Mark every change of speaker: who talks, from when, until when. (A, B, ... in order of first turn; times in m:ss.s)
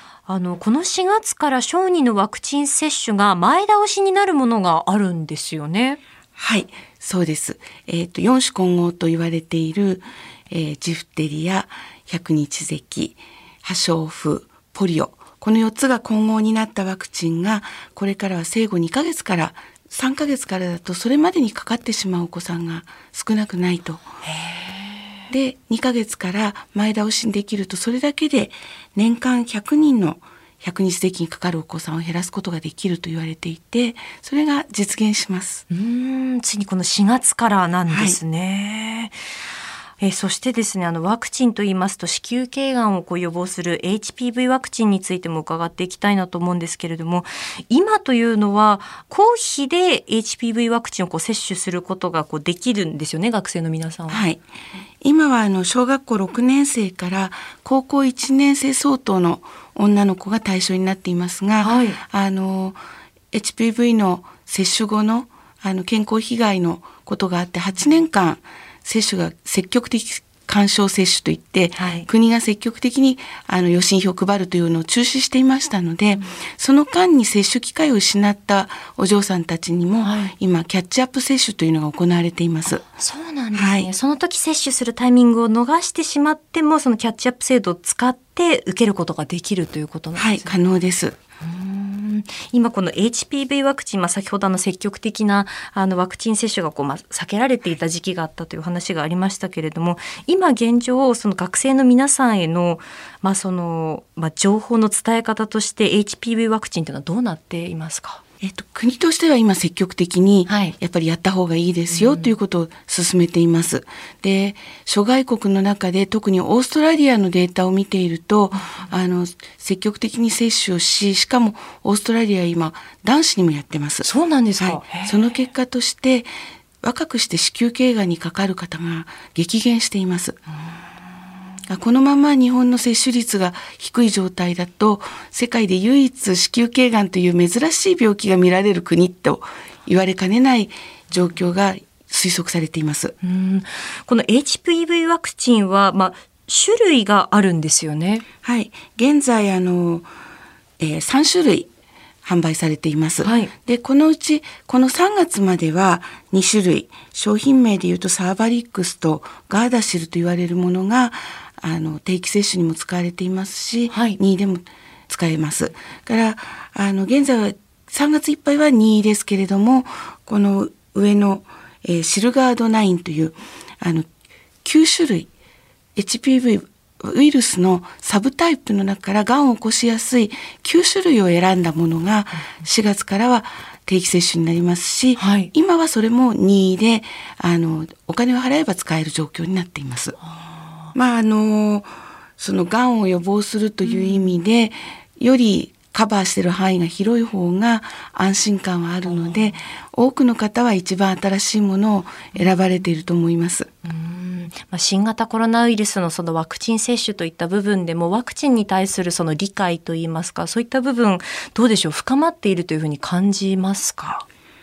0:00.3-0:06.0 A
0:06.4-0:24.0 B
0:24.3-0:25.1 A
0:25.3-0:35.6 B
0:35.7-0:39.2 A
0:37.9-0:38.2 B
0:40.0-0:54.2 A
0:54.1-0:54.4 B
0:55.0-1:02.8 B
1:01.6-1:02.0 A
1:03.3-1:22.8 B
1:11.8-1:12.1 A
1:20.0-1:20.3 A
1:22.8-1:30.6 A
1:23.5-1:23.9 B
1:30.1-1:31.2 B
1:31.4-1:48.2 A
1:48.4-2:06.3 B
1:50.5-1:50.8 A
1:51.9-1:52.3 A
1:58.5-1:58.9 A
2:04.0-2:05.4 A
2:06.8-2:10.4 B
2:11.7-2:23.2 B
2:23.2-2:28.2 A
2:28.4-2:30.1 B
2:30.8-2:31.7 B
2:32.2-2:54.1 B
2:33.2-2:33.5 A
2:43.9-2:44.2 A
2:54.6-2:55.3 B
2:56.0-3:10.2 B
3:05.2-3:05.5 A
3:10.2-3:10.9 A
3:10.9-3:23.7 B
3:13.8-3:14.4 A
3:19.0-3:19.6 A
3:23.8-3:34.2 A